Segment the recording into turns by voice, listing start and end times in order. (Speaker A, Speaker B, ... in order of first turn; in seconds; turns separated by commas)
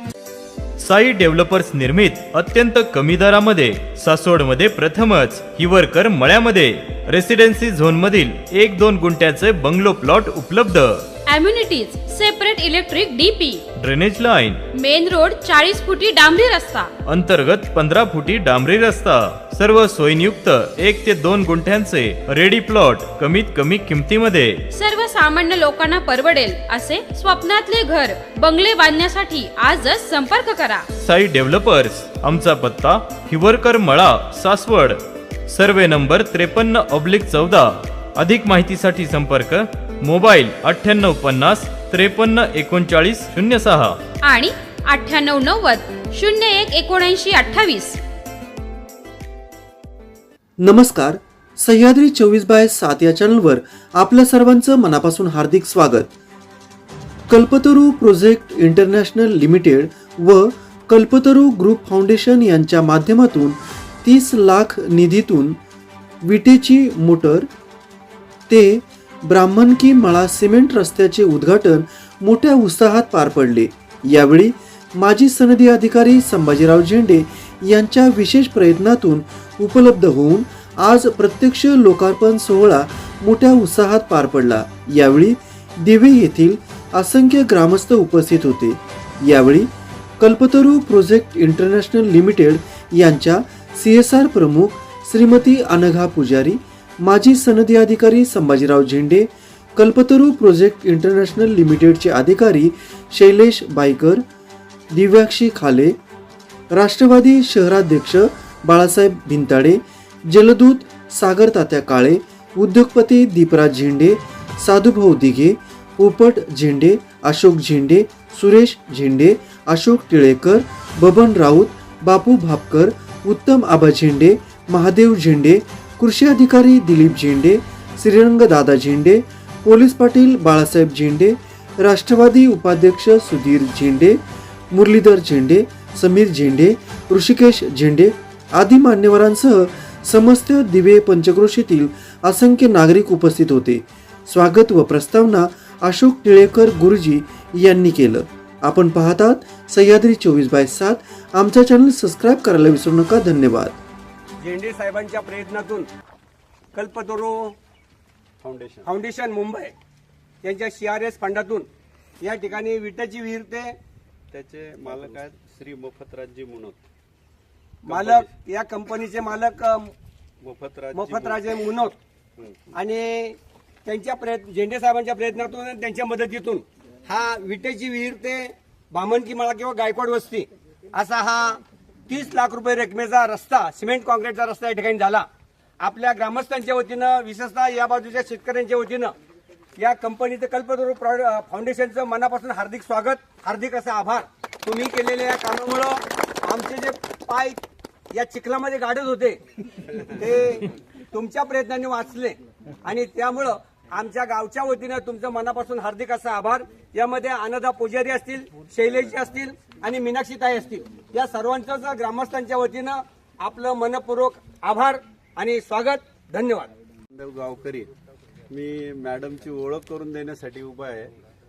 Speaker A: 0.8-11.1, Speaker B: 11.3-13.6, Speaker A: 13.8-14.6, Speaker B: 14.7-16.9, Speaker A: 17.0-24.7, Speaker B: 24.7-30.9, Speaker A: 30.9-44.0, Speaker B: 44.2-48.0, Speaker C: 50.6-56.1, Speaker C: 57.3-65.5, Speaker C: 66.2-67.5, Speaker C: 68.5-104.2, Speaker C: 104.9-106.0, Speaker C: 106.7-134.2, Speaker C: 134.7-153.8, Speaker D: 154.4-155.9, Speaker D: 156.7-157.6, Speaker E: 158.4-158.9, Speaker D: 158.8-159.7, Speaker D: 160.4-161.7, Speaker D: 162.2-163.8, Speaker E: 164.3-166.8, Speaker D: 167.8-169.9, Speaker E: 167.9-168.3, Speaker E: 170.4-171.8, Speaker D: 170.9-172.0, Speaker D: 172.7-185.3, Speaker D: 185.8-189.1, Speaker D: 189.8-199.4, Speaker D: 200.1-216.7, Speaker E: 217.1-217.9, Speaker E: 218.5-221.1